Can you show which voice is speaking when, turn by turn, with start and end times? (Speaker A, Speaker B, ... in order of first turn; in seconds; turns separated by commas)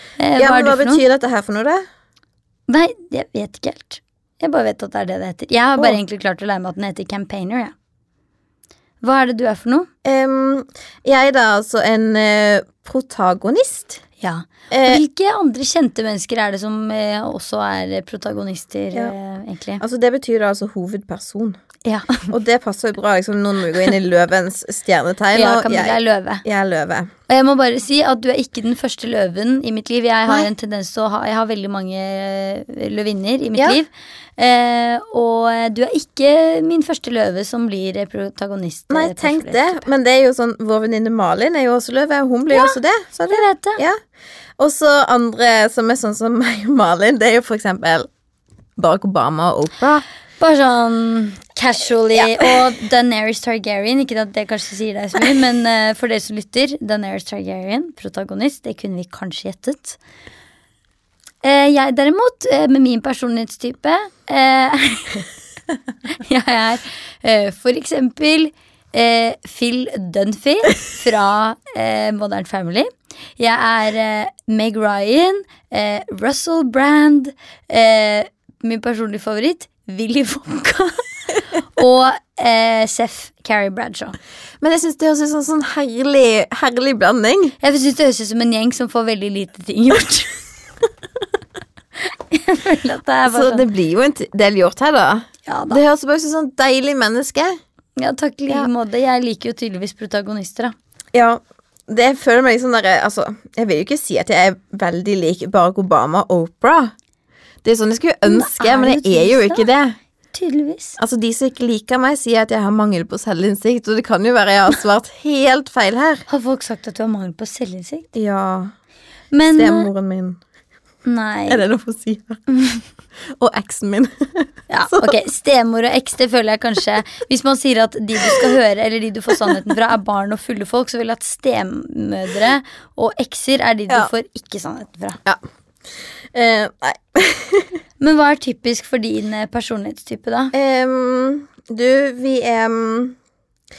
Speaker A: 0.2-1.0, Speaker B: 0.4-1.8, Speaker A: 2.7-7.7, Speaker A: 9.0-9.9, Speaker B: 10.0-14.0, Speaker A: 14.2-19.8, Speaker B: 14.7-15.0, Speaker B: 19.8-21.6, Speaker A: 21.9-22.3, Speaker B: 22.3-27.1, Speaker A: 25.3-26.4, Speaker A: 27.3-39.9, Speaker B: 38.9-44.0, Speaker A: 43.3-43.8, Speaker B: 44.6-48.1, Speaker B: 48.8-50.0, Speaker A: 50.4-60.0, Speaker B: 52.2-52.6, Speaker A: 61.4-65.3, Speaker A: 66.1-81.1, Speaker A: 81.6-84.2, Speaker B: 84.6-87.5, Speaker A: 87.6-90.4, Speaker A: 92.3-93.7, Speaker B: 93.3-97.6, Speaker A: 95.5-95.8, Speaker A: 98.0-100.8, Speaker B: 101.1-106.9, Speaker B: 107.6-110.0, Speaker A: 108.3-109.7, Speaker A: 110.3-111.0, Speaker B: 111.0-116.2, Speaker A: 116.3-118.1, Speaker B: 118.2-118.7, Speaker A: 119.3-119.9, Speaker B: 119.5-120.4, Speaker A: 121.0-121.6, Speaker B: 121.5-122.4, Speaker A: 122.5-122.8, Speaker B: 123.2-125.2, Speaker A: 124.7-135.2, Speaker B: 128.2-128.5, Speaker B: 135.2-137.8, Speaker A: 138.0-140.5, Speaker B: 140.5-143.2